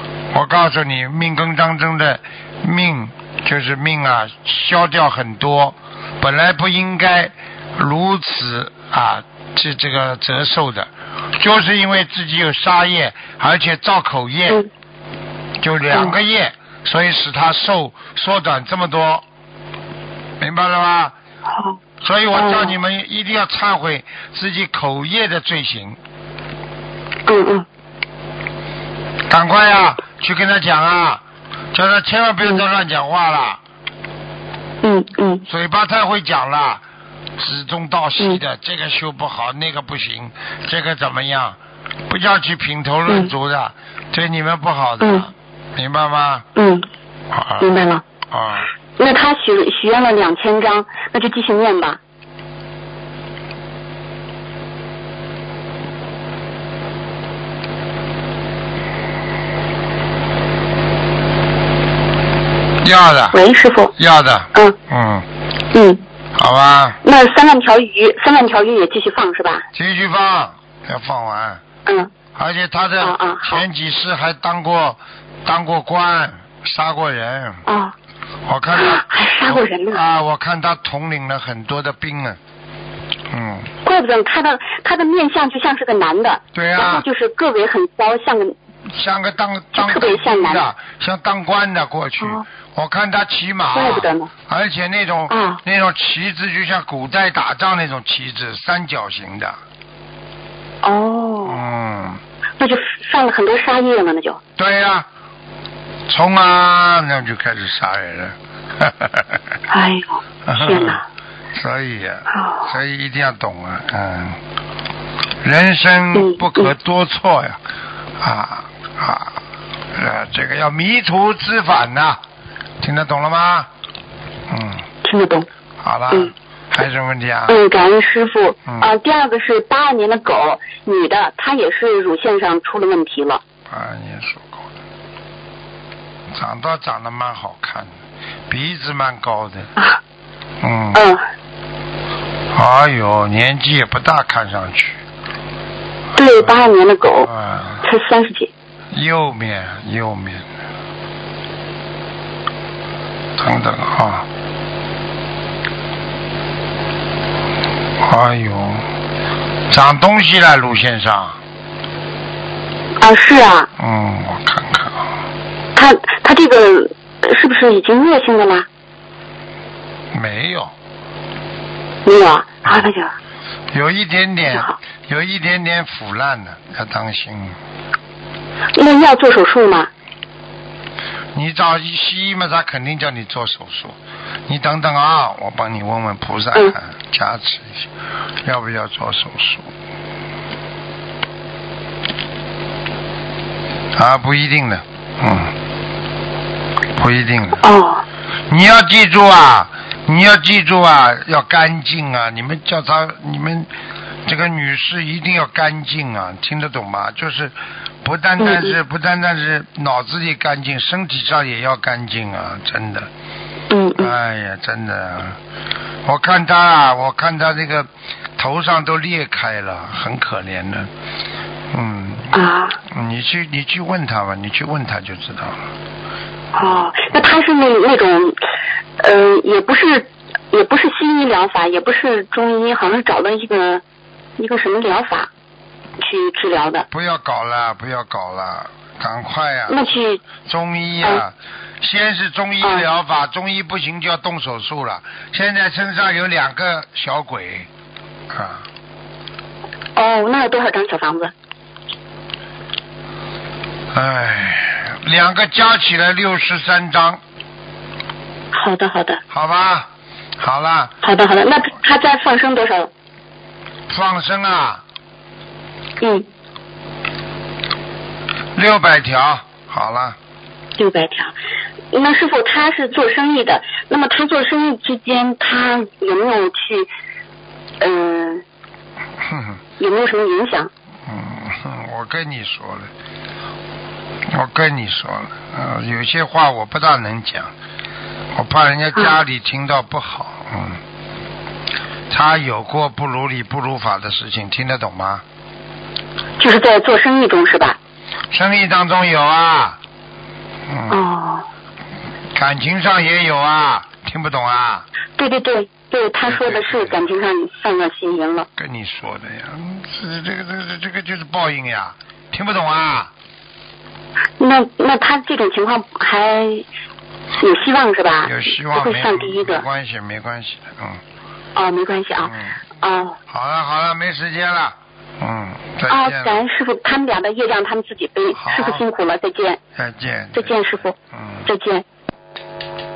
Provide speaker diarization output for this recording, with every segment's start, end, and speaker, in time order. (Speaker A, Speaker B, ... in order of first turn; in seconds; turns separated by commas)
Speaker A: 0.3-14.6, Speaker A: 15.6-19.2, Speaker B: 15.9-16.2, Speaker A: 20.4-21.1, Speaker B: 21.5-21.8, Speaker A: 22.0-26.0, Speaker B: 22.3-22.7, Speaker B: 27.3-27.6, Speaker A: 29.3-31.2, Speaker A: 31.7-33.6, Speaker B: 34.8-35.4, Speaker A: 35.5-36.8, Speaker A: 37.4-46.5, Speaker B: 43.1-43.3, Speaker B: 45.0-45.3, Speaker B: 46.5-46.9, Speaker A: 47.3-47.7, Speaker B: 47.6-48.0, Speaker A: 48.3-48.7, Speaker B: 49.0-52.0, Speaker A: 62.8-63.4, Speaker B: 63.3-63.9, Speaker A: 64.0-65.3, Speaker B: 65.7-66.0, Speaker A: 66.3-67.0, Speaker B: 67.0-69.6, Speaker A: 69.7-71.6, Speaker B: 71.8-72.1, Speaker A: 72.3-77.6, Speaker B: 73.0-73.6, Speaker B: 77.7-77.9, Speaker A: 78.5-82.4, Speaker B: 78.8-80.0, Speaker A: 83.3-83.7, Speaker B: 83.8-88.5, Speaker A: 86.5-87.0, Speaker A: 88.9-99.6, Speaker B: 89.7-90.7, Speaker B: 93.7-94.3, Speaker B: 95.3-95.6, Speaker B: 100.8-101.6, Speaker A: 101.4-102.2, Speaker B: 102.6-104.4, Speaker A: 104.6-105.1, Speaker A: 106.1-109.4, Speaker B: 109.7-111.0, Speaker A: 110.5-111.0, Speaker A: 111.5-114.4, Speaker B: 112.3-112.7, Speaker A: 115.4-117.6, Speaker B: 116.1-116.7, Speaker A: 118.2-119.4, Speaker A: 119.9-122.2, Speaker A: 122.8-123.7, Speaker A: 124.5-124.8, Speaker B: 125.0-125.5, Speaker A: 125.8-127.6, Speaker B: 127.5-133.4, Speaker A: 128.7-128.9, Speaker A: 133.7-134.7, Speaker A: 136.3-137.9, Speaker A: 138.5-139.7, Speaker A: 140.6-141.1, Speaker B: 140.9-141.2, Speaker A: 142.5-145.0, Speaker B: 146.2-147.3, Speaker A: 147.2-147.8, Speaker B: 147.8-148.5, Speaker A: 148.9-150.4, Speaker A: 153.4-154.3, Speaker A: 158.0-158.9, Speaker A: 159.7-161.4, Speaker B: 163.0-163.7, Speaker A: 163.8-165.1, Speaker B: 165.7-168.7, Speaker A: 170.1-170.7, Speaker B: 172.0-173.1, Speaker A: 173.7-177.6, Speaker B: 178.7-179.9, Speaker A: 181.3-187.9, Speaker A: 188.4-189.7, Speaker A: 193.9-195.5, Speaker A: 196.9-197.7, Speaker B: 197.6-198.0, Speaker A: 198.5-203.7, Speaker A: 204.2-213.1, Speaker B: 208.4-208.7, Speaker B: 213.7-214.1, Speaker A: 213.9-215.4, Speaker A: 216.0-220.9, Speaker A: 221.7-225.6, Speaker B: 222.3-222.8, Speaker B: 226.5-228.4, Speaker A: 226.7-227.2, Speaker B: 229.0-233.8, Speaker B: 234.4-235.3, Speaker B: 236.0-236.8, Speaker A: 236.9-247.7, Speaker B: 239.7-240.2, Speaker A: 248.3-248.7, Speaker B: 249.9-251.3, Speaker A: 253.9-257.2, Speaker B: 258.5-259.2, Speaker A: 259.3-260.9, Speaker B: 261.0-262.9, Speaker A: 263.9-264.8, Speaker B: 266.0-266.3, Speaker A: 268.5-270.2, Speaker B: 270.8-271.3, Speaker B: 271.9-276.9, Speaker B: 277.8-278.4, Speaker A: 279.2-279.6, Speaker B: 279.8-280.7, Speaker A: 281.1-282.9, Speaker A: 284.3-287.5, Speaker A: 288.3-290.8, Speaker A: 292.1-295.2, Speaker B: 296.4-297.8, Speaker A: 298.3-299.8, Speaker A: 300.7-301.0, Speaker B: 300.9-301.5, Speaker A: 302.3-304.9, Speaker B: 305.2-308.5, Speaker A: 306.3-307.0, Speaker A: 308.6-313.1, Speaker B: 314.4-316.6, Speaker B: 317.4-319.6, Speaker A: 318.2-321.0, Speaker B: 321.5-323.2, Speaker A: 322.2-322.5, Speaker A: 323.3-326.4, Speaker B: 325.9-329.6, Speaker A: 328.3-328.8, Speaker A: 329.8-331.4, Speaker B: 330.3-330.9, Speaker B: 331.4-331.8